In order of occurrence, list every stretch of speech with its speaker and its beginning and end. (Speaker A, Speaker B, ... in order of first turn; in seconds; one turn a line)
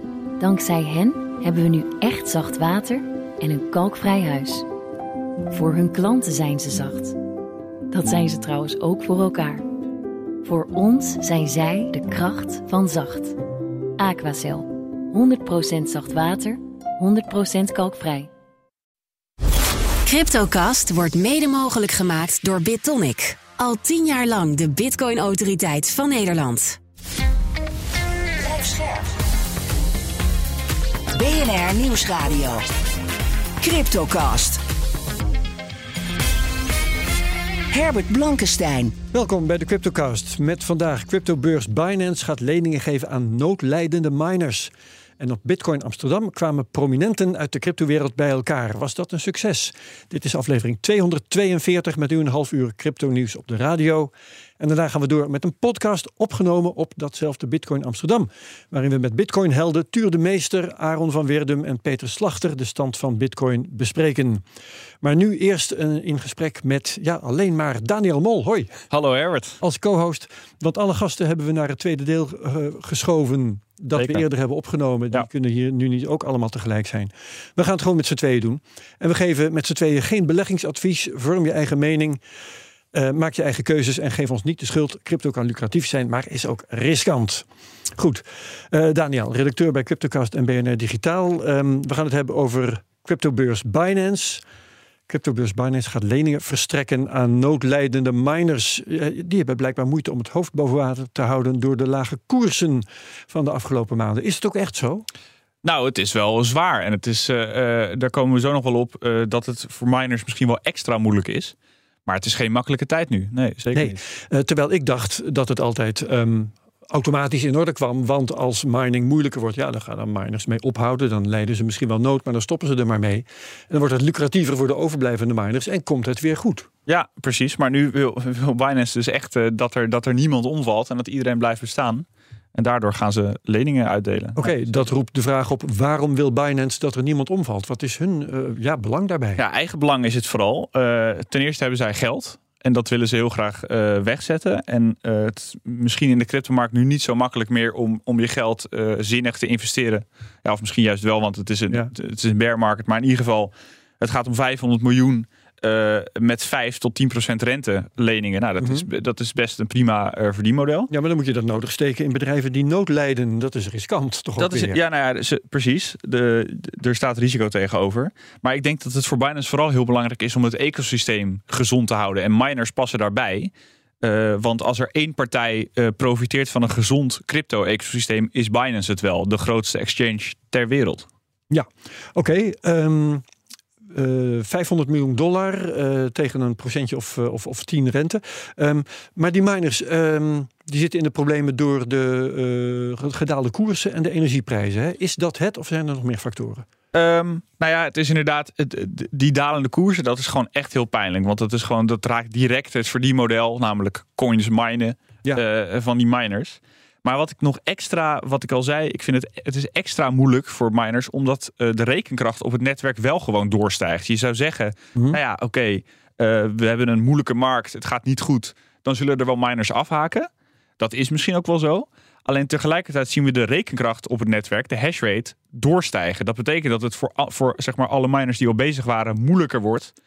Speaker A: 0.4-4.7
Speaker A: 5.5-7.2
Speaker A: 7.9-9.7
Speaker A: 10.4-13.4
Speaker A: 14.0-18.3
Speaker B: 20.1-26.8
Speaker C: 28.4-29.1
Speaker C: 31.1-32.6
Speaker C: 33.6-34.6
Speaker C: 37.7-39.0
Speaker D: 39.1-64.4
Speaker D: 65.0-68.8
Speaker E: 68.9-69.6
Speaker D: 69.6-82.2
Speaker E: 74.0-74.2
Speaker D: 82.9-94.4
Speaker D: 95.1-105.1
Speaker E: 105.6-111.5
Speaker E: 112.1-114.0
Speaker D: 113.7-126.7
Speaker E: 126.9-134.7
Speaker D: 134.4-139.4
Speaker E: 139.4-160.9
Speaker D: 158.6-158.9
Speaker D: 160.9-164.8
Speaker E: 164.4-173.5
Speaker E: 174.0-181.1
Speaker D: 181.5-183.2
Speaker D: 183.9-196.7
Speaker E: 196.9-229.9